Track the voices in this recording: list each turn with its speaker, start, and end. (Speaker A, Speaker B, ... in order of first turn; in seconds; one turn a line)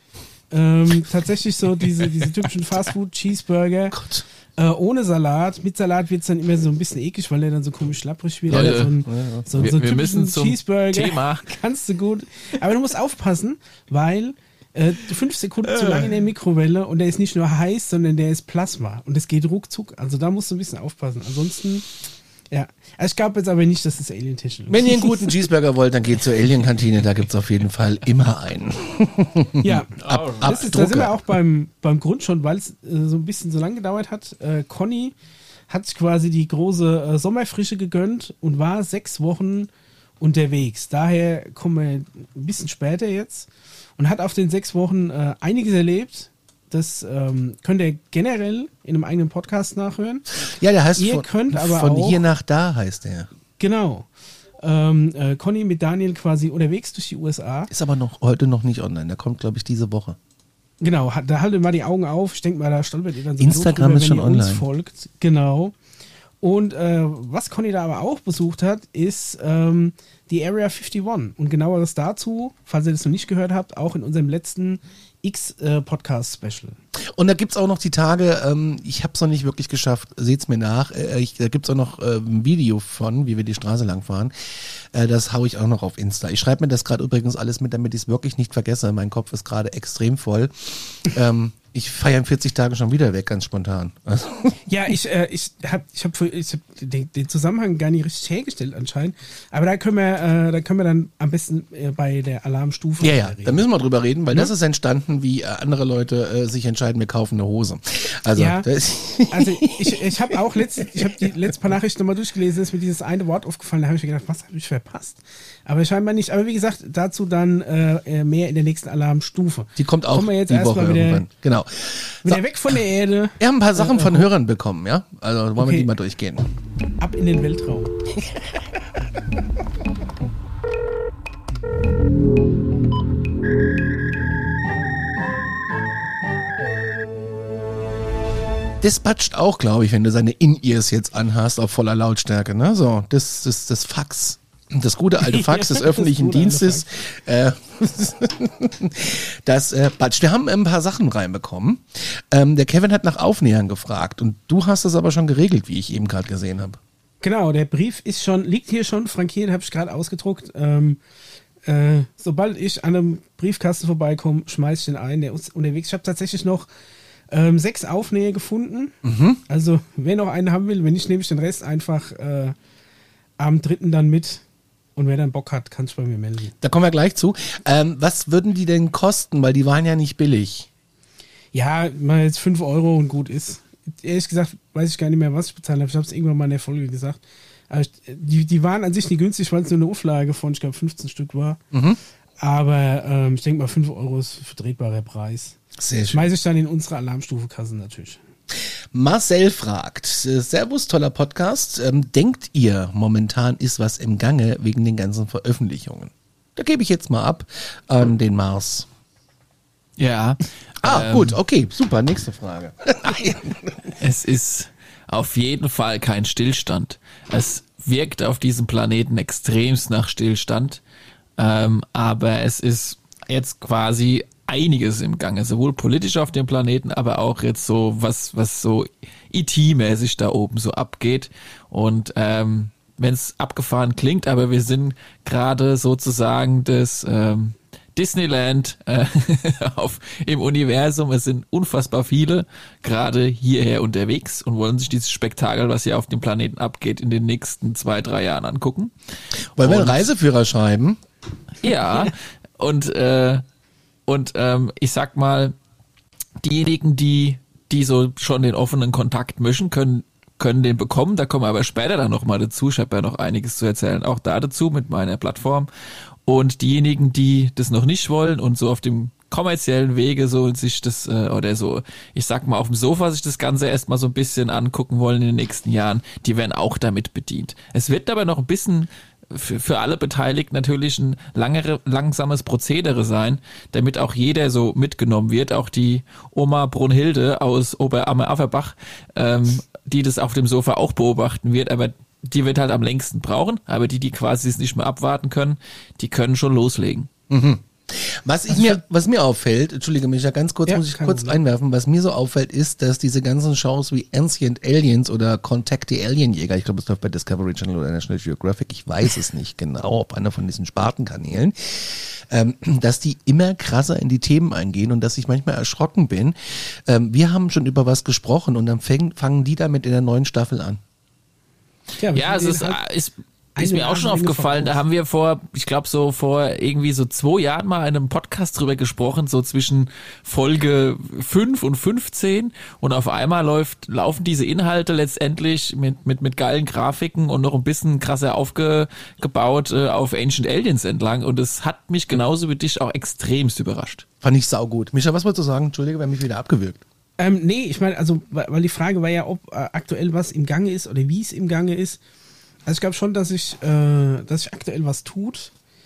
Speaker A: 0.5-4.0
Speaker B: 3.9-4.2
Speaker A: 4.5-21.9
Speaker B: 8.5-9.5
Speaker C: 8.5-8.9
Speaker C: 9.6-11.5
Speaker C: 15.6-16.1
Speaker A: 22.5-25.4
Speaker B: 24.7-31.2
Speaker A: 29.6-35.1
Speaker C: 30.0-30.5
Speaker A: 35.7-50.2
Speaker B: 50.4-53.3
Speaker A: 51.0-52.2
Speaker A: 53.6-54.1
Speaker A: 54.6-57.7
Speaker B: 57.7-60.2
Speaker A: 60.8-65.7
Speaker B: 63.4-64.6
Speaker A: 66.4-76.8
Speaker B: 77.1-94.6
Speaker A: 94.7-103.6
Speaker B: 103.0-111.3
Speaker A: 108.3-108.7
Speaker A: 109.3-121.2
Speaker B: 119.8-122.4
Speaker A: 122.2-124.3
Speaker B: 123.4-126.5
Speaker A: 125.6-125.9
Speaker A: 127.0-128.1
Speaker B: 138.8-156.8
Speaker A: 145.2-147.0
Speaker A: 157.2-161.0
Speaker A: 161.6-166.7
Speaker A: 167.3-168.9
Speaker B: 169.0-169.4
Speaker A: 169.5-172.5
Speaker A: 173.4-174.4
Speaker A: 174.9-176.5
Speaker B: 176.6-180.7
Speaker A: 181.5-191.6
Speaker B: 191.7-192.0
Speaker A: 192.4-195.6
Speaker B: 195.8-196.3
Speaker A: 196.1-198.2
Speaker B: 198.5-208.9
Speaker C: 210.0-211.4
Speaker B: 210.8-213.9
Speaker C: 214.0-220.8
Speaker C: 221.4-248.9
Speaker B: 249.6-251.0
Speaker C: 249.6-250.1
Speaker C: 251.6-253.4
Speaker C: 254.1-255.5
Speaker C: 256.4-265.7
Speaker C: 266.2-297.1
Speaker B: 297.3-320.8
Speaker A: 300.7-301.4
Speaker A: 322.0-322.8
Speaker C: 322.1-344.1
Speaker A: 323.6-324.8
Speaker B: 344.2-346.8
Speaker A: 347.2-352.0
Speaker A: 352.6-355.5